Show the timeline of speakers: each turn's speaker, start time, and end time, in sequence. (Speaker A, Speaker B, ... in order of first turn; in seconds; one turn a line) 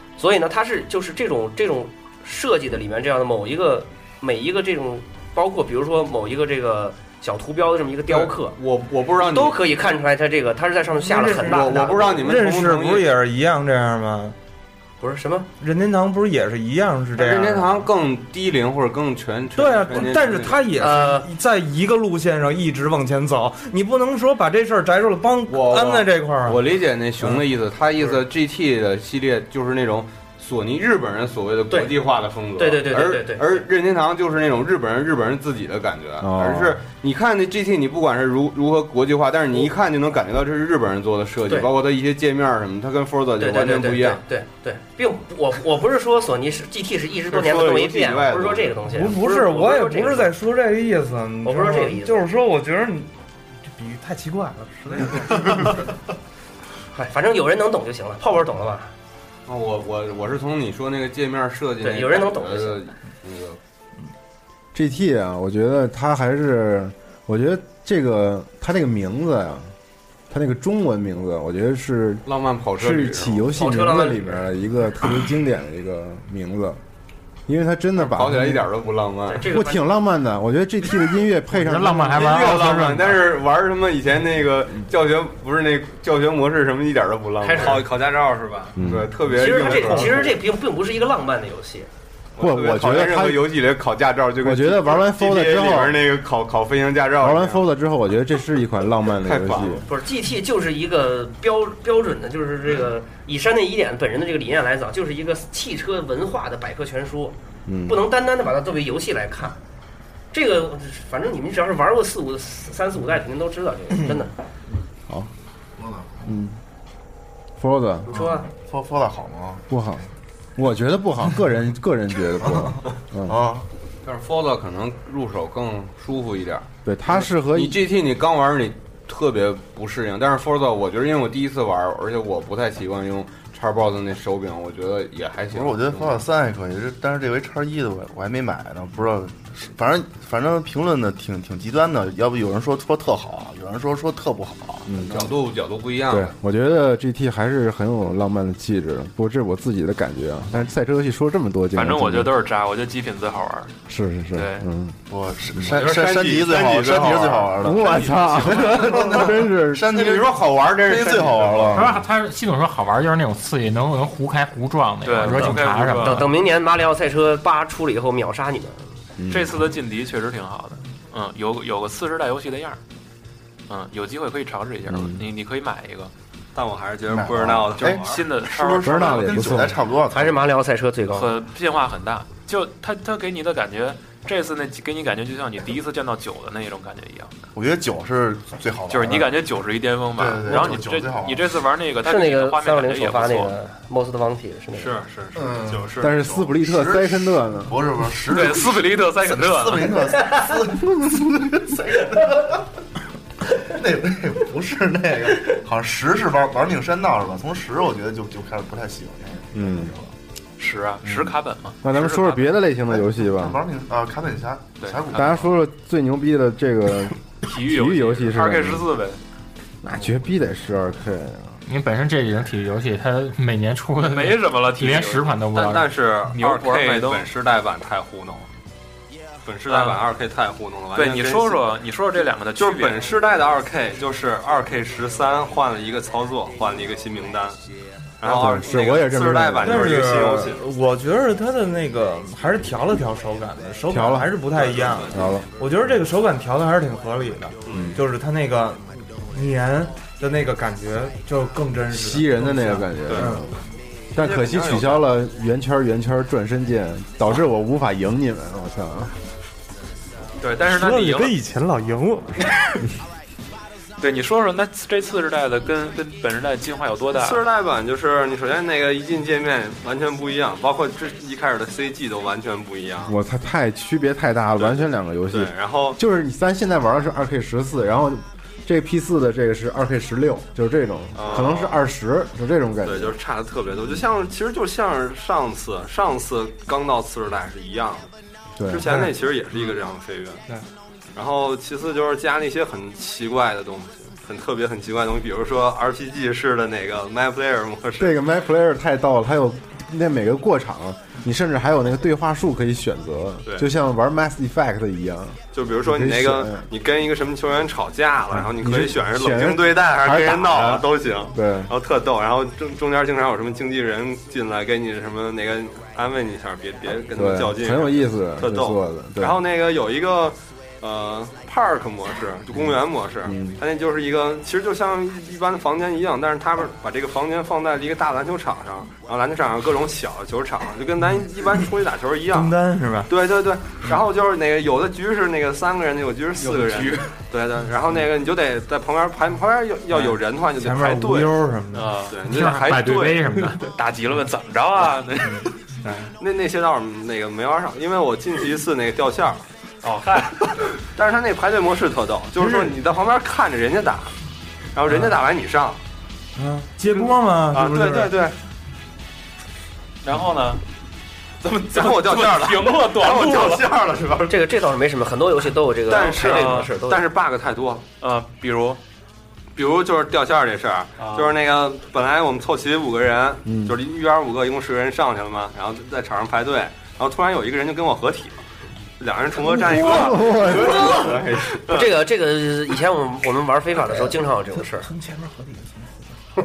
Speaker A: 0.2-8.6
Speaker B: 8.1-9.7
Speaker A: 9.2-12.3
Speaker C: 11.0-14.3
Speaker B: 11.3-13.1
Speaker A: 15.0-15.5
Speaker C: 15.6-17.8
Speaker B: 17.1-20.6
Speaker C: 19.5-26.6
Speaker A: 20.8-21.3
Speaker B: 25.5-44.2
Speaker A: 32.6-33.6
Speaker D: 36.2-36.8
Speaker A: 43.4-50.3
Speaker B: 47.3-48.8
Speaker C: 48.9-53.1
Speaker A: 51.4-52.2
Speaker C: 53.7-55.8
Speaker A: 56.9-58.9
Speaker B: 59.5-63.6
Speaker A: 61.8-62.8
Speaker D: 64.7-69.7
Speaker D: 70.3-76.8
Speaker B: 72.2-73.5
Speaker A: 73.5-74.4
Speaker D: 77.5-78.6
Speaker B: 78.0-79.4
Speaker A: 79.3-79.8
Speaker D: 79.4-82.4
Speaker E: 81.5-83.2
Speaker B: 82.1-87.9
Speaker A: 87.4-87.8
Speaker F: 87.5-88.8
Speaker D: 88.8-89.1
Speaker B: 88.8-90.3
Speaker A: 89.3-91.9
Speaker D: 92.4-93.5
Speaker B: 92.4-97.6
Speaker D: 94.4-96.0
Speaker D: 97.2-99.9
Speaker B: 99.2-99.8
Speaker A: 99.8-107.3
Speaker D: 107.7-108.0
Speaker A: 107.9-109.6
Speaker A: 110.3-114.3
Speaker G: 115.8-116.2
Speaker D: 116.2-116.6
Speaker D: 117.6-118.1
Speaker A: 118.1-118.5
Speaker G: 118.1-119.6
Speaker D: 119.7-123.4
Speaker G: 123.3-123.7
Speaker B: 124.0-126.7
Speaker D: 126.8-127.8
Speaker B: 127.2-136.2
Speaker G: 135.5-145.3
Speaker D: 144.9-145.2
Speaker B: 145.1-146.3
Speaker D: 146.1-152.3
Speaker H: 151.7-153.7
Speaker D: 153.9-154.9
Speaker H: 154.3-154.7
Speaker G: 155.1-162.0
Speaker D: 155.6-155.8
Speaker B: 155.7-157.6
Speaker D: 157.6-159.9
Speaker H: 157.9-158.2
Speaker B: 159.9-161.8
Speaker E: 161.7-166.2
Speaker H: 165.0-166.3
Speaker A: 165.3-168.8
Speaker D: 169.2-169.6
Speaker H: 169.3-172.8
Speaker H: 173.7-176.1
Speaker D: 174.9-175.2
Speaker F: 176.5-178.2
Speaker G: 177.1-180.4
Speaker H: 177.9-179.6
Speaker D: 178.8-179.8
Speaker A: 180.1-181.3
Speaker H: 181.1-187.3
Speaker G: 187.5-189.3
Speaker H: 188.9-193.5
Speaker G: 190.1-191.4
Speaker A: 192.0-194.9
Speaker F: 194.7-196.5
Speaker G: 195.3-195.9
Speaker D: 196.0-197.8
Speaker G: 196.6-202.6
Speaker H: 198.3-200.0
Speaker G: 203.6-210.1
Speaker D: 209.5-209.9
Speaker H: 210.6-212.5
Speaker D: 211.8-213.6
Speaker G: 212.9-215.5
Speaker H: 214.8-215.3
Speaker D: 215.1-218.8
Speaker H: 217.4-219.2
Speaker D: 219.8-221.6
Speaker E: 221.7-225.9
Speaker H: 224.0-225.3
Speaker F: 225.5-228.5
Speaker H: 226.3-227.3
Speaker F: 229.4-231.7
Speaker H: 229.7-230.0
Speaker H: 230.9-233.1
Speaker F: 232.6-237.6
Speaker F: 238.2-240.6
Speaker D: 238.2-240.4
Speaker C: 239.6-253.4
Speaker D: 243.9-244.3
Speaker F: 244.5-245.3
Speaker D: 245.1-245.5
Speaker F: 247.6-247.9
Speaker D: 247.7-248.0
Speaker D: 251.9-253.5
Speaker F: 253.0-253.4
Speaker D: 254.1-259.1
Speaker F: 254.2-255.1
Speaker H: 260.4-261.4
Speaker C: 260.6-262.6
Speaker H: 264.0-267.4
Speaker F: 267.1-273.1
Speaker D: 273.0-283.1
Speaker F: 274.6-276.0
Speaker F: 281.1-281.8
Speaker F: 282.8-288.1
Speaker D: 288.6-288.9
Speaker F: 288.7-290.4
Speaker C: 288.8-289.1
Speaker F: 291.1-298.1
Speaker D: 298.0-306.7
Speaker F: 305.5-332.5
Speaker D: 308.3-311.7
Speaker D: 317.1-319.4
Speaker D: 322.5-323.6
Speaker C: 332.3-333.1
Speaker F: 333.1-341.4
Speaker H: 336.4-337.1
Speaker H: 339.9-340.1
Speaker C: 340.5-342.0
Speaker H: 341.7-342.4
Speaker F: 342.1-343.4
Speaker E: 342.3-343.6
Speaker H: 343.6-345.5
Speaker F: 345.8-349.4
Speaker H: 349.8-350.4
Speaker F: 350.6-354.1
Speaker C: 352.4-352.7
Speaker F: 354.7-355.8
Speaker C: 356.4-358.1
Speaker F: 356.9-358.4
Speaker H: 360.0-360.6
Speaker F: 361.4-364.3
Speaker H: 361.7-363.7
Speaker A: 364.2-367.0
Speaker F: 365.9-367.8
Speaker H: 366.2-366.8
Speaker H: 368.0-368.8
Speaker F: 369.6-378.4
Speaker H: 371.0-371.3
Speaker D: 373.4-373.8
Speaker F: 379.0-381.9
Speaker D: 379.9-380.9
Speaker B: 380.9-381.6
Speaker A: 381.7-384.9
Speaker C: 384.8-385.9